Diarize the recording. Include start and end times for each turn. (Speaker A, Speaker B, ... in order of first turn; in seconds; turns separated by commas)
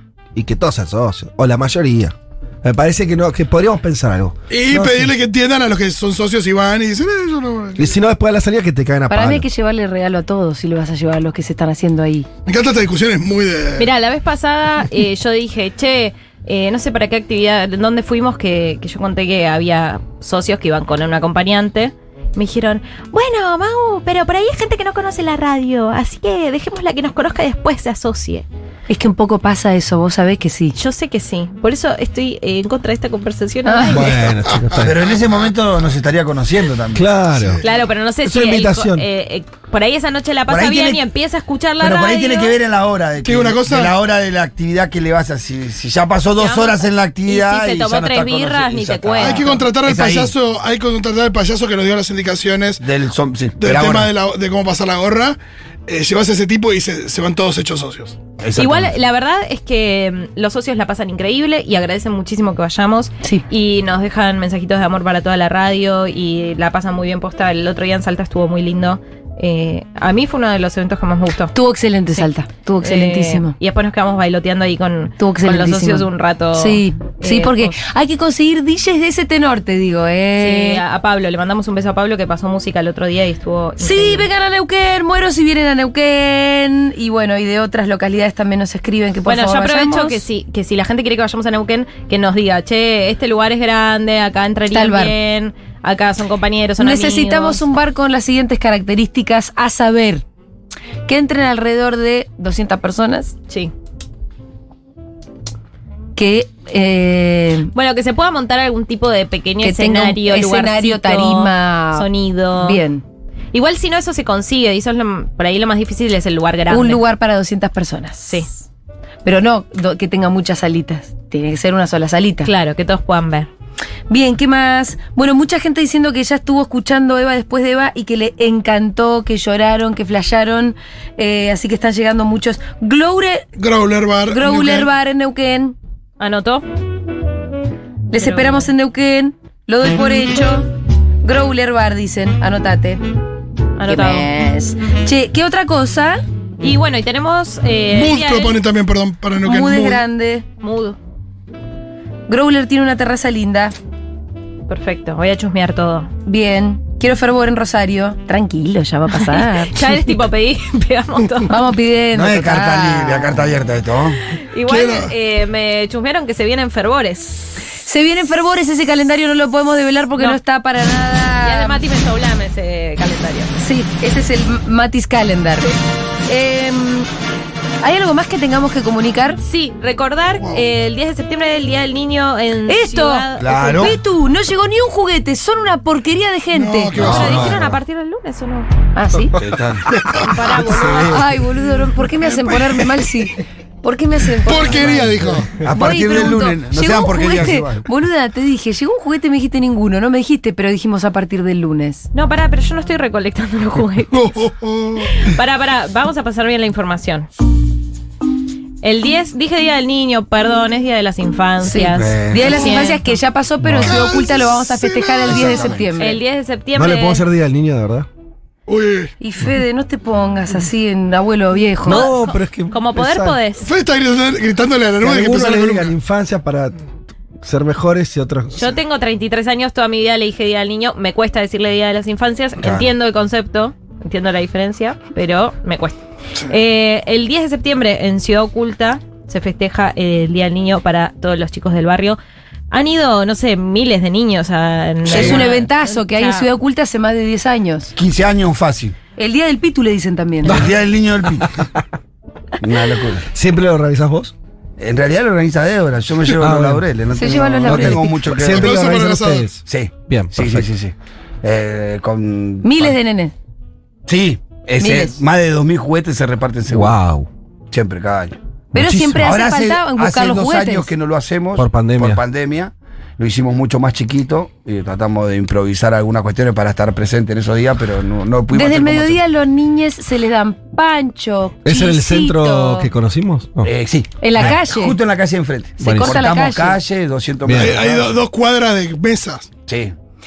Speaker A: 0.3-5.1, Speaker B: 4.5-8.0, Speaker A: 7.8-9.4, Speaker C: 9.1-12.3, Speaker B: 12.4-13.9, Speaker D: 13.8-28.4, Speaker C: 28.9-30.8, Speaker D: 30.8-34.3, Speaker C: 33.6-34.1, Speaker A: 33.9-34.9, Speaker B: 34.5-34.8, Speaker E: 34.8-37.1, Speaker A: 36.9-37.6, Speaker D: 37.6-42.6, Speaker A: 38.2-39.0, Speaker E: 40.5-41.0, Speaker E: 41.8-50.3, Speaker B: 43.2-43.9, Speaker D: 46.4-49.5, Speaker B: 49.2-52.8, Speaker E: 52.8-54.1, Speaker B: 53.6-58.2, Speaker E: 58.4-58.9, Speaker D: 58.5-71.5, Speaker C: 71.5-73.5, Speaker D: 72.8-77.8, Speaker C: 75.2-80.8, Speaker D: 80.4-84.3, Speaker C: 83.8-90.2, Speaker D: 89.2-97.6, Speaker C: 94.7-95.1, Speaker C: 96.8-100.2, Speaker C: 101.0-103.3, Speaker C: 106.2-107.7, Speaker D: 107.7-112.8, Speaker C: 109.6-113.0, Speaker D: 113.5-117.0, Speaker C: 116.7-118.5, Speaker C: 119.2-122.5, Speaker D: 122.4-123.5, Speaker C: 124.1-133.5, Speaker B: 133.6-134.9, Speaker C: 134.3-135.8, Speaker D: 136.2-136.6, Speaker C: 138.1-140.7, Speaker D: 138.1-138.7, Speaker C: 141.2-143.0, Speaker D: 143.8-144.3, Speaker C: 143.8-146.2, Speaker D: 146.6-148.6, Speaker B: 147.9-150.0, Speaker C: 149.4-150.4, Speaker D: 150.6-151.0, Speaker C: 152.3-153.7, Speaker D: 154.7-156.1, Speaker C: 156.2-159.8, Speaker D: 159.2-161.6, Speaker C: 161.5-163.4, Speaker E: 162.1-164.2, Speaker D: 164.4-167.6, Speaker B: 164.7-165.1, Speaker C: 167.8-171.8, Speaker D: 171.4-173.6, Speaker C: 173.6-175.8, Speaker C: 176.3-177.1, Speaker C: 177.8-179.4, Speaker D: 179.4-184.0, Speaker B: 180.4-180.6, Speaker C: 182.7-187.0, Speaker E: 183.3-184.0, Speaker B: 186.5-187.6, Speaker E: 186.9-187.6, Speaker D: 187.0-188.7, Speaker A: 187.1-187.6, Speaker C: 188.9-189.4, Speaker E: 189.4-191.1, Speaker D: 190.2-191.3, Speaker C: 190.8-202.1, Speaker B: 192.3-193.0, Speaker B: 194.4-195.6, Speaker E: 195.5-197.8, Speaker D: 202.1-204.3, Speaker B: 204.1-205.1, Speaker D: 205.0-207.3, Speaker D: 208.8-213.1, Speaker C: 211.6-216.2, Speaker E: 211.8-212.7, Speaker B: 213.8-215.6, Speaker E: 215.2-215.9, Speaker D: 216.0-217.2, Speaker A: 216.7-218.1, Speaker B: 218.7-219.1, Speaker C: 219.2-222.1, Speaker A: 221.8-223.4, Speaker D: 221.8-223.7, Speaker B: 223.6-225.9, Speaker A: 225.0-226.8, Speaker A: 227.4-228.6, Speaker D: 228.6-242.2, Speaker E: 232.6-232.9, Speaker D: 242.7-246.5, Speaker E: 245.1-245.5, Speaker C: 245.1-247.9, Speaker E: 247.9-248.9, Speaker C: 249.2-250.6, Speaker E: 250.4-251.6, Speaker A: 250.5-250.7, Speaker A: 251.4-251.7, Speaker E: 252.6-253.3, Speaker A: 253.3-254.3, Speaker E: 254.8-259.0, Speaker A: 256.3-256.8, Speaker C: 257.1-258.1, Speaker A: 257.6-260.7, Speaker B: 258.4-259.5, Speaker E: 259.6-262.9, Speaker C: 262.6-263.3, Speaker E: 264.1-266.9, Speaker C: 264.8-265.2, Speaker A: 266.7-267.3, Speaker E: 267.7-268.4, Speaker C: 268.7-270.9, Speaker A: 268.7-269.3, Speaker E: 269.1-279.2, Speaker A: 271.6-272.2, Speaker C: 278.5-282.9, Speaker A: 281.6-283.7, Speaker E: 283.6-288.1, Speaker C: 284.2-285.0, Speaker C: 285.8-286.8, Speaker A: 285.8-286.1, Speaker A: 287.4-287.8, Speaker B: 287.6-289.5, Speaker E: 289.7-289.9